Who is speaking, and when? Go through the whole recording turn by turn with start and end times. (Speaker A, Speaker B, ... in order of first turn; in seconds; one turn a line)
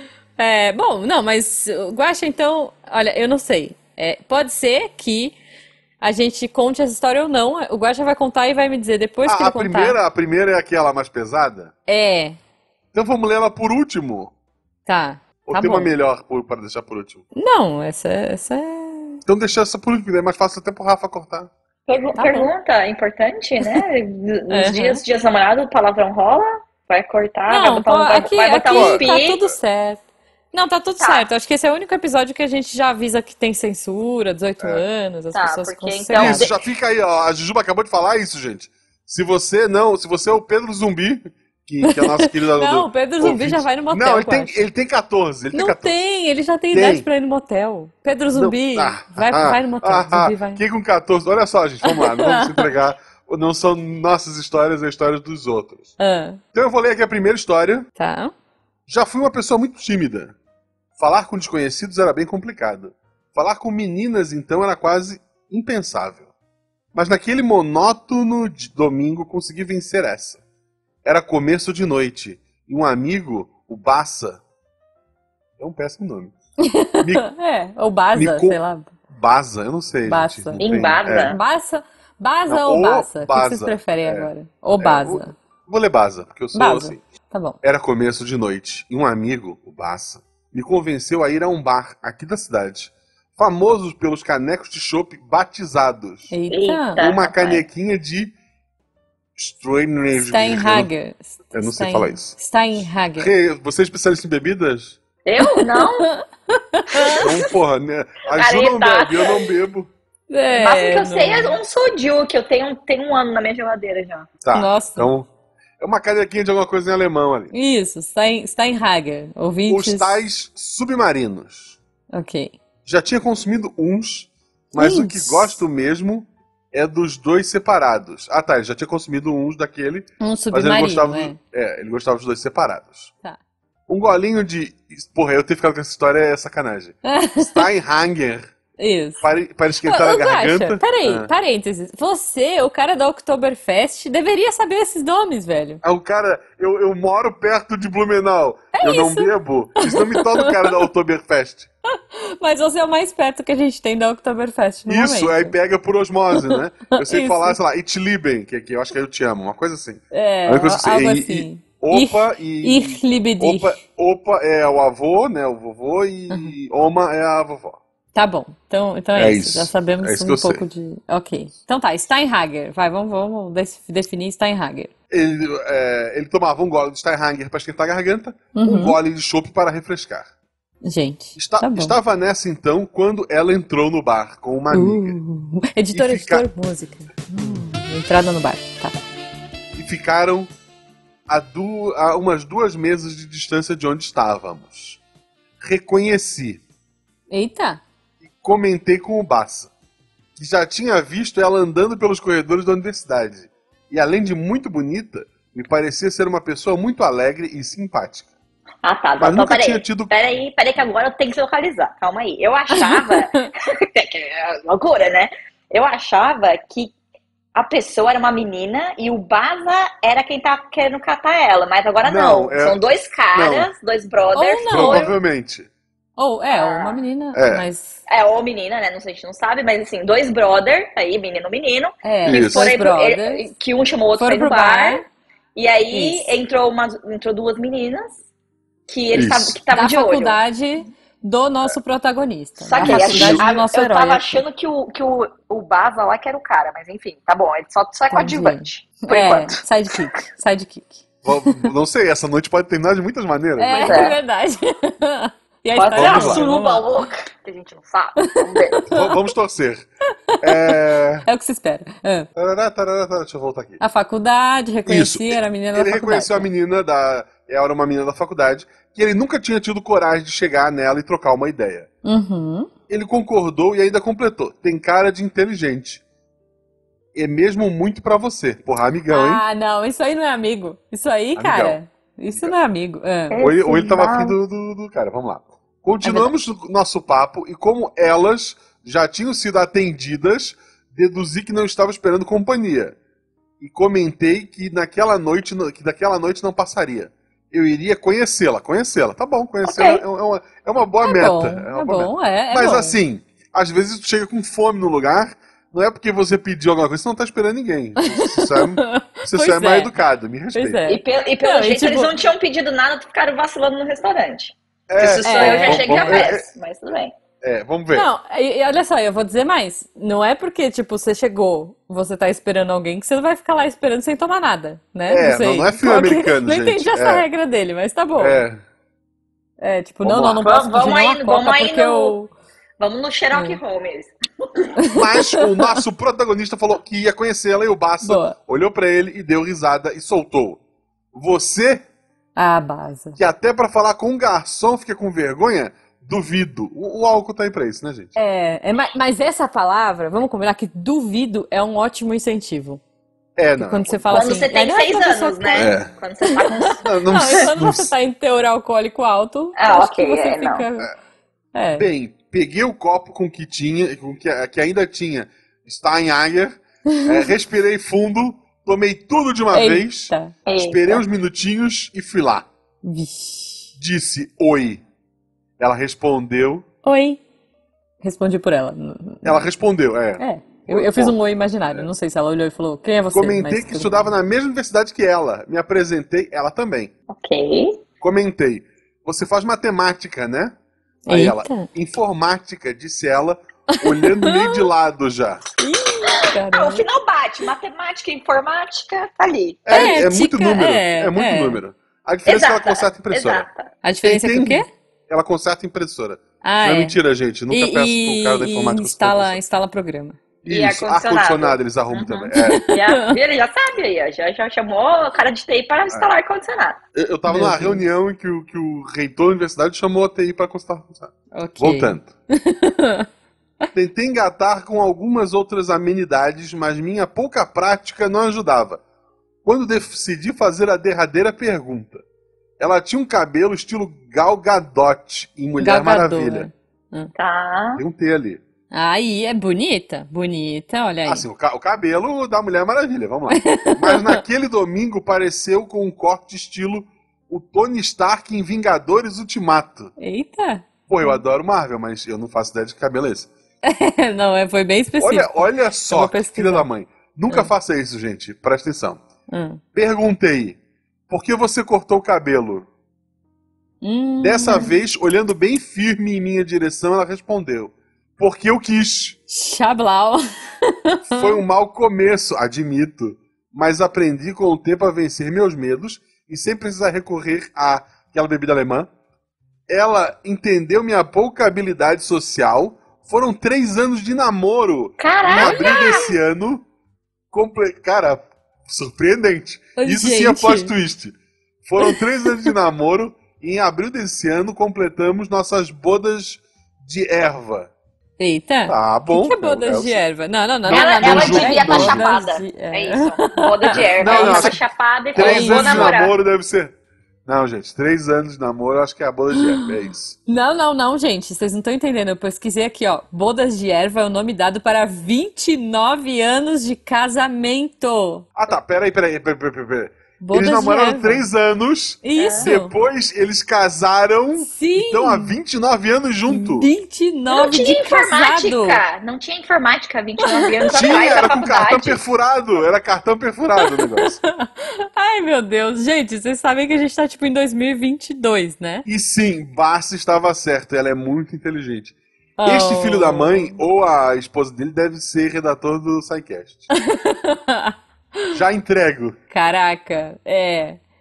Speaker A: 0.4-5.3
Speaker A: 6.0-10.0
Speaker B: 9.2-11.7
Speaker A: 11.9-12.3
Speaker B: 12.9-14.3
Speaker A: 14.8-15.9
Speaker B: 15.4-17.2
Speaker A: 17.3-19.2
Speaker B: 19.2-21.5
Speaker C: 21.9-29.4
Speaker A: 22.2-22.5
Speaker A: 24.5-25.0
Speaker A: 27.5-36.5
Speaker B: 28.7-29.0
Speaker C: 31.0-31.2
Speaker C: 35.3-36.5
Speaker B: 36.1-46.0
Speaker A: 41.8-44.7
Speaker A: 45.5-50.6
Speaker B: 46.7-47.0
Speaker B: 48.3-55.9
Speaker A: 51.8-52.7
Speaker A: 56.0-56.4
Speaker B: 56.5-57.9
Speaker A: 58.0-58.3
Speaker B: 58.9-60.3
Speaker B: 61.0-66.3
Speaker B: 66.9-70.4
Speaker B: 71.0-74.4
Speaker B: 75.6-76.3
Speaker A: 76.6-78.9
Speaker B: 77.0-77.3
Speaker B: 78.1-81.4
Speaker A: 80.0-80.7
Speaker C: 80.6-81.4
Speaker A: 81.2-85.3
Speaker B: 82.5-87.0
Speaker A: 86.5-87.6
Speaker B: 87.6-96.3
Speaker A: 96.3-97.0
Speaker C: 96.5-97.6
Speaker B: 97.0-98.3
Speaker B: 99.4-100.9
Speaker A: 100.1-103.3
Speaker B: 101.5-102.3
Speaker B: 103.2-105.0
Speaker C: 105.2-106.1
Speaker A: 105.4-107.4
Speaker C: 107.0-107.4
Speaker B: 107.2-109.9
Speaker C: 108.3-109.4
Speaker A: 110.3-111.6
Speaker C: 110.5-114.3
Speaker B: 114.4-117.5
Speaker A: 114.5-115.1
Speaker A: 117.5-120.2
Speaker B: 119.7-121.8
Speaker A: 122.1-122.6
Speaker B: 122.8-133.1
Speaker A: 124.8-125.6
Speaker A: 130.2-131.4
Speaker B: 133.9-138.5
Speaker A: 137.0-137.6
Speaker A: 138.8-139.2
Speaker B: 139.2-141.3
Speaker A: 139.8-145.8
Speaker B: 145.8-151.7
Speaker A: 148.7-150.9
Speaker A: 151.9-155.6
Speaker B: 154.9-167.8
Speaker A: 156.3-157.6
Speaker A: 160.1-163.8
Speaker A: 168.1-174.9
Speaker B: 169.1-170.6
Speaker B: 175.1-180.3
Speaker A: 178.5-179.0
Speaker A: 180.8-181.9
Speaker B: 181.3-185.2
Speaker A: 184.7-189.0
Speaker B: 185.9-186.4
Speaker B: 189.7-190.5
Speaker B: 191.3-195.0
Speaker B: 195.6-196.6
Speaker A: 197.3-197.8
Speaker B: 198.3-199.7
Speaker B: 200.3-208.3
Speaker C: 208.8-216.9
Speaker B: 209.2-210.1
Speaker A: 212.7-213.5
Speaker C: 217.5-225.1
Speaker B: 222.0-223.7
Speaker A: 224.3-225.1
Speaker B: 224.7-225.7
Speaker A: 226.2-228.0
Speaker C: 226.5-227.0
Speaker B: 227.3-227.7
Speaker C: 228.1-235.0
Speaker A: 232.0-233.5
Speaker B: 232.2-232.7
Speaker A: 234.2-235.0
Speaker C: 235.5-238.2
Speaker A: 235.9-236.3
Speaker C: 238.9-240.4
Speaker B: 239.1-239.6
Speaker A: 239.7-244.4
Speaker C: 242.6-249.6
Speaker B: 242.8-243.4
Speaker A: 248.1-251.7
Speaker B: 251.2-254.1
Speaker A: 253.6-256.9
Speaker C: 253.8-254.2
Speaker C: 255.8-258.9
Speaker B: 255.9-256.4
Speaker A: 258.2-259.1
Speaker B: 258.9-259.9
Speaker A: 260.3-262.3
Speaker B: 260.4-261.3
Speaker B: 262.4-263.8
Speaker A: 263.8-266.5
Speaker B: 264.9-271.9
Speaker A: 272.0-272.7
Speaker B: 272.9-276.0
Speaker B: 277.1-279.4
Speaker A: 279.1-283.4
Speaker B: 281.4-281.8
Speaker C: 283.3-284.3
Speaker B: 283.4-292.9
Speaker A: 286.0-286.3
Speaker B: 293.6-310.8
Speaker C: 299.6-300.0
Speaker A: 301.0-303.0
Speaker A: 308.0-309.9
Speaker A: 310.5-312.1
Speaker C: 310.9-317.1
Speaker B: 314.9-316.4
Speaker A: 315.2-316.3
Speaker B: 317.4-318.1
Speaker A: 317.9-328.4
Speaker B: 325.1-327.2
Speaker B: 328.2-328.6
Speaker A: 329.6-332.3
Speaker B: 330.0-330.4
Speaker C: 330.4-332.1
Speaker C: 332.8-334.7
Speaker A: 333.3-333.6
Speaker A: 334.8-335.7
Speaker B: 334.9-340.6
Speaker A: 338.0-338.4
Speaker B: 341.1-341.8
Speaker A: 342.4-343.2
Speaker B: 343.2-348.1
Speaker A: 348.1-352.8
Speaker B: 353.4-354.4
Speaker A: 353.6-355.7
Speaker C: 354.1-357.3
Speaker B: 355.5-355.9
Speaker A: 356.3-360.9
Speaker B: 356.8-357.9
Speaker C: 359.6-360.6
Speaker A: 361.5-361.9
Speaker B: 361.7-372.5
Speaker A: 366.9-367.2
Speaker A: 369.5-370.3
Speaker C: 370.4-371.0
Speaker A: 372.8-373.7
Speaker B: 373.8-374.8
Speaker B: 375.6-376.6
Speaker A: 376.8-377.2
Speaker A: 378.0-379.5
Speaker B: 379.2-381.2
Speaker A: 380.2-384.1
Speaker B: 383.1-386.9
Speaker C: 387.1-387.8
Speaker B: 388.0-390.5
Speaker A: 391.1-391.7
Speaker B: 391.1-395.4
Speaker A: 393.7-394.6
Speaker A: 395.6-396.8
Speaker C: 396.1-400.0
Speaker B: 399.6-403.4
Speaker A: 399.7-401.6
Speaker C: 402.2-403.7
Speaker A: 403.8-404.7
Speaker B: 404.0-409.4
Speaker A: 406.4-406.9
Speaker A: 407.5-410.2
Speaker B: 410.4-412.6
Speaker C: 410.5-416.8
Speaker A: 412.3-413.2
Speaker B: 416.9-422.1
Speaker A: 417.3-417.8
Speaker A: 421.3-423.1
Speaker B: 423.7-428.8
Speaker B: 429.4-432.0
Speaker B: 432.6-436.5
Speaker A: 435.6-437.1
Speaker C: 437.1-437.8
Speaker B: 437.8-438.4
Speaker A: 438.7-441.2
Speaker B: 441.1-449.9
Speaker A: 443.3-444.2
Speaker A: 450.0-451.2
Speaker B: 450.9-453.3
Speaker A: 453.6-456.7
Speaker B: 455.0-459.0
Speaker A: 459.3-459.6
Speaker B: 459.7-462.7
Speaker A: 463.8-464.7
Speaker B: 464.2-469.2
Speaker A: 469.3-471.4
Speaker B: 471.1-478.9
Speaker B: 479.7-486.6
Speaker C: 485.0-486.1
Speaker A: 485.3-486.1
Speaker B: 487.3-497.7
Speaker A: 489.8-490.7
Speaker A: 491.8-492.5
Speaker A: 498.2-504.6
Speaker B: 498.6-500.0
Speaker B: 500.6-502.1
Speaker C: 500.7-506.1
Speaker B: 503.7-504.6
Speaker B: 505.1-506.7
Speaker A: 505.1-505.9
Speaker B: 507.2-510.1
Speaker A: 509.4-509.7
Speaker A: 510.3-518.3
Speaker B: 518.4-526.7
Speaker A: 520.2-521.2
Speaker A: 522.0-522.7
Speaker C: 522.2-522.5
Speaker A: 524.4-525.4
Speaker A: 526.3-528.8
Speaker C: 527.3-532.0
Speaker A: 530.2-530.9
Speaker B: 530.7-534.2
Speaker A: 533.6-538.8
Speaker B: 538.8-546.7
Speaker A: 542.4-543.6
Speaker A: 546.7-548.4
Speaker B: 548.3-549.2
Speaker A: 549.3-550.8